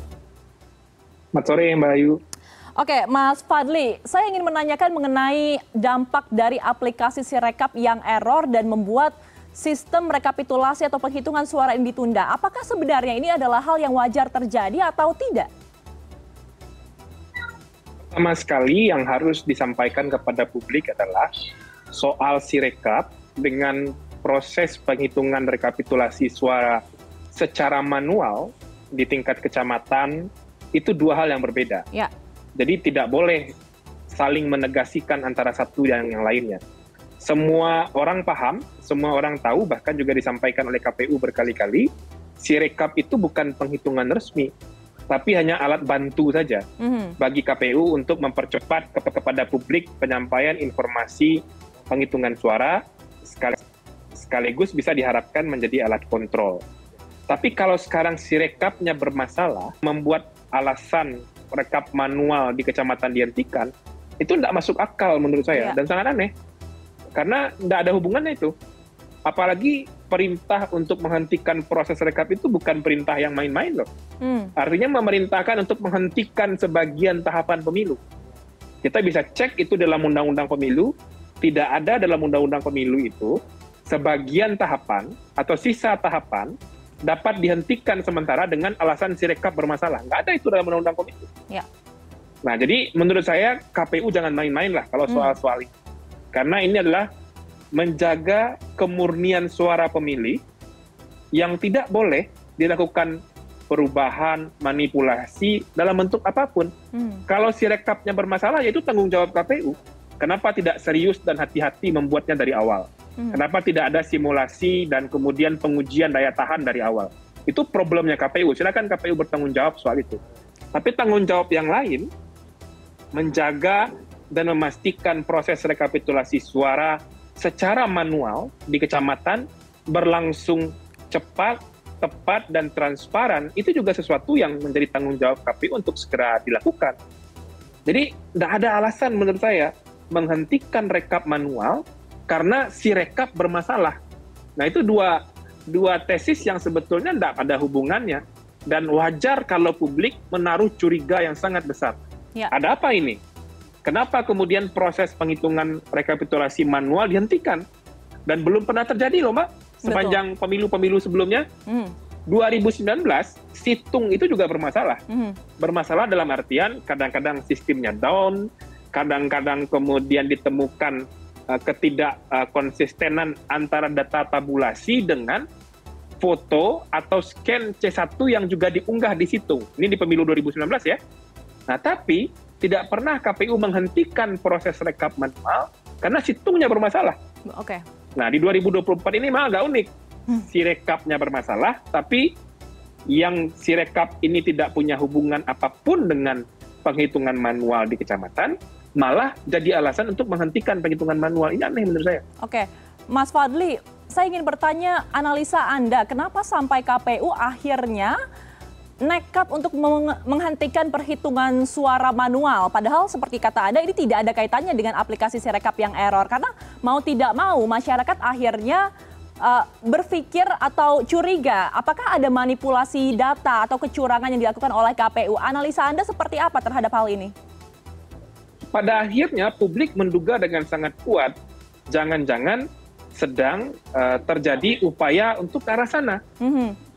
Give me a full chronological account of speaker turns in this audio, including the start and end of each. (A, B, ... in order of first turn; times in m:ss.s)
0:01.3-0:02.2 A
0:02.8-0:15.5 B
0:18.1-0:21.3 A
0:21.9-0:26.8 A
0:27.3-0:31.9 A
0:32.6-0:33.5 A
0:34.1-0:36.6 A
0:37.2-0:41.9 A
0:42.4-0:44.5 A
0:45.1-0:46.6 A
0:46.8-0:47.1 B
0:47.2-0:53.6 A
0:54.2-0:56.6 A
0:57.3-1:06.3 A
1:07.1-1:08.5 A
1:09.2-1:13.9 A
1:14.2-1:14.5 B
1:14.6-1:18.0 A
1:18.8-1:26.5 A
1:27.0-1:31.3 A
1:32.4-1:35.7 A
1:35.1-1:35.4 B
1:36.3-1:37.1 A
1:37.7-1:40.4 A
1:41.3-1:43.2 A
1:43.7-1:46.7 A
1:46.9-1:47.2 B
1:47.3-2:00.2 A
2:00.7-2:02.1 A
2:03.1-2:17.0 A
2:17.8-2:24.0 A
2:24.6-2:32.0 A
2:32.5-2:33.2 A
2:33.8-2:37.6 A
2:38.3-2:41.4 A
2:39.8-2:40.2 B
2:41.7-2:41.9 B
2:42.3-2:45.0 A
2:45.1-2:45.4 B
2:45.6-2:55.4 A
2:56.2-3:01.0 A
3:01.7-3:07.2 A
3:07.5-3:07.8 B
3:08.2-3:12.3 A
3:13.1-3:22.2 A
3:22.4-3:28.2 B
3:29.0-3:38.8 B
3:39.4-3:47.3 B
3:48.7-3:51.3 A
3:51.9-3:56.2 A
3:56.4-3:56.8 B